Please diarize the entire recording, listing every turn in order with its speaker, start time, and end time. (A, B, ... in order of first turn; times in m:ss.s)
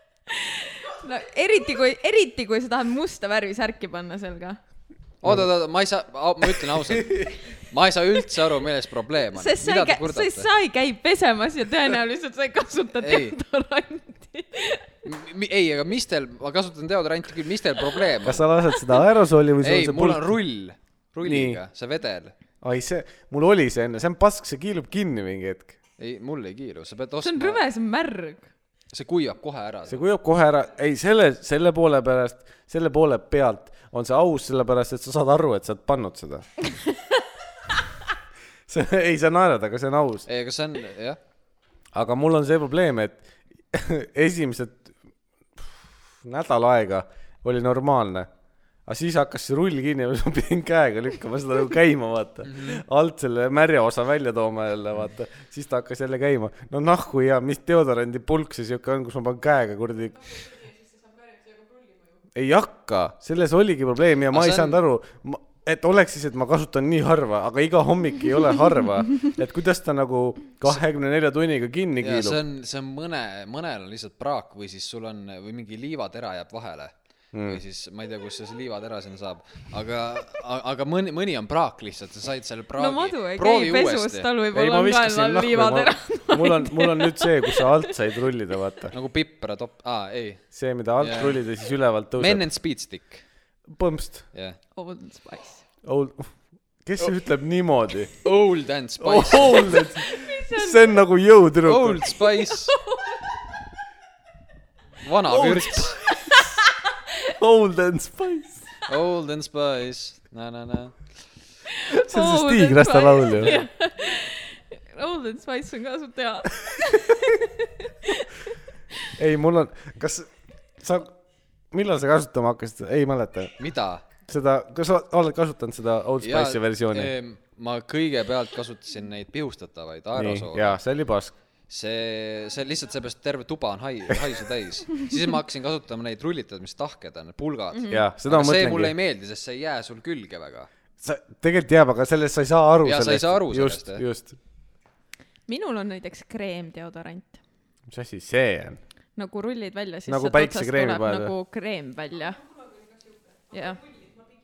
0:00.3-0:04.6 A
0:05.2-0:10.5 B
0:07.0-0:07.3 C
0:09.3-0:15.0 A
0:13.0-0:13.3 B
0:15.0-0:18.5 B
0:18.2-0:20.4 C
0:19.6-0:22.3 B
0:21.2-0:21.6 C
0:22.6-0:25.7 C
0:26.0-0:27.6 B
0:27.2-0:28.5 A
0:28.9-0:30.0 B
0:29.9-0:36.4 C
0:38.7-0:40.2 C
0:40.2-0:41.2 B
0:41.9-0:45.0 C
0:45.6-0:48.3 C
0:48.8-1:00.6 C
0:52.4-0:52.8 B
1:02.3-1:12.4 C
1:04.3-1:04.8 B
1:12.0-1:24.3 B
1:17.3-1:17.6 C
1:22.8-1:28.0 A
1:24.5-1:28.9 C
1:28.9-1:30.4 B
1:30.5-1:32.4 C
1:31.0-1:31.4 B
1:32.2-1:33.2 B
1:33.7-1:34.2 C
1:34.7-1:35.6 A
1:35.8-1:36.3 C
1:36.8-1:38.1 C
1:38.2-1:39.9 B
1:39.0-1:42.1 C
1:39.9-1:41.0 A
1:41.6-1:42.7 B
1:42.5-1:43.2 A
1:45.0-1:46.0 B
1:45.3-1:46.4 C
1:47.2-1:48.7 C
1:48.9-1:51.2 B
1:51.7-1:58.3 A
1:51.9-1:53.6 C
1:53.4-1:53.6 B
1:59.1-2:01.1 C
2:01.7-2:03.6 C
2:03.6-2:04.0 B
2:04.2-2:07.1 C
2:06.2-2:10.8 B
2:10.1-2:11.3 C
2:11.7-2:20.7 B
2:17.7-2:18.0 A
2:17.9-2:18.9 C
2:21.0-2:24.4 C
2:22.8-2:24.0 B
2:25.5-2:27.4 A
2:27.9-2:28.8 C
2:29.2-2:32.4 A
2:30.1-2:31.3 C
2:33.5-2:33.8 A